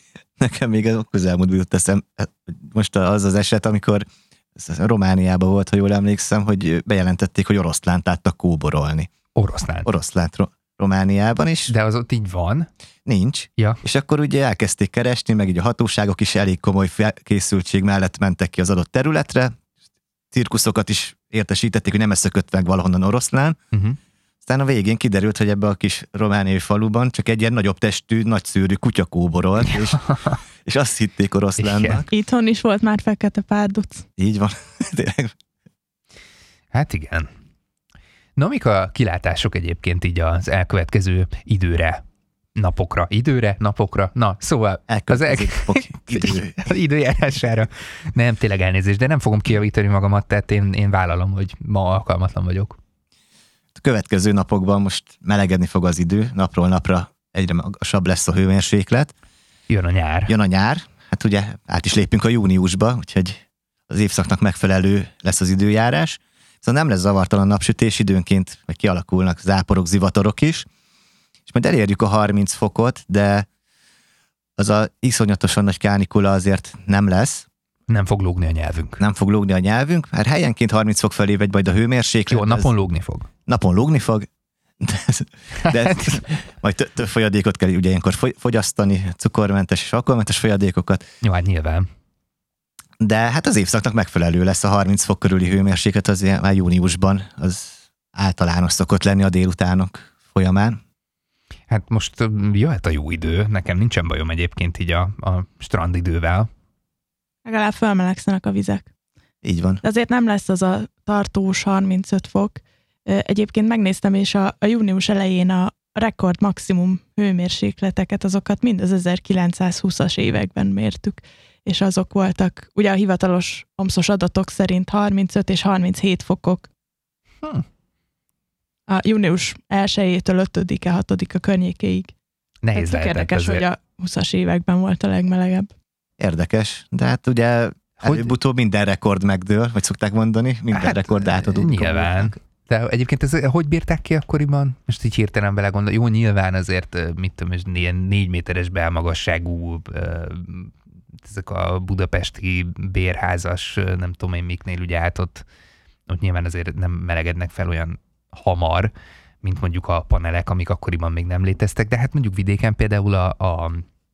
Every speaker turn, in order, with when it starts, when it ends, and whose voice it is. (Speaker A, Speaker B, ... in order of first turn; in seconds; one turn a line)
Speaker A: 0.4-9.1
Speaker B: 9.3-9.9
Speaker A: 9.8-11.7
Speaker B: 11.7-12.7
Speaker A: 13.1-19.6
Speaker A: 20.3-23.6
Speaker B: 23.7-24.0
Speaker A: 24.4-30.0
Speaker B: 29.8-30.4
Speaker A: 30.6-32.1
Speaker B: 31.6-32.0
Speaker C: 32.1-34.0
Speaker A: 34.2-35.3
Speaker B: 36.7-37.3
Speaker B: 38.4-42.0
Speaker B: 42.5-52.8
Speaker A: 44.9-46.7
Speaker A: 53.8-59.1
Speaker B: 59.7-60.3
Speaker A: 60.3-70.7
Speaker A: 71.5-73.5
Speaker A: 74.6-77.5
Speaker B: 77.9-79.0
Speaker A: 79.0-82.7
Speaker B: 82.3-83.3
Speaker A: 83.5-84.3
Speaker A: 84.8-91.0
Speaker B: 85.6-86.2
Speaker B: 91.2-91.9
Speaker A: 93.0-100.8
Speaker B: 101.7-106.5
Speaker C: 107.4-108.9
Speaker A: 109.4-109.8
Speaker C: 109.8-126.7
Speaker C: 128.9-132.1
Speaker B: 132.6-133.6
Speaker C: 132.7-135.7
Speaker A: 136.2-142.4
Speaker B: 138.0-138.3
Speaker B: 140.7-155.4
Speaker B: 156.1-158.9
Speaker B: 159.4-163.8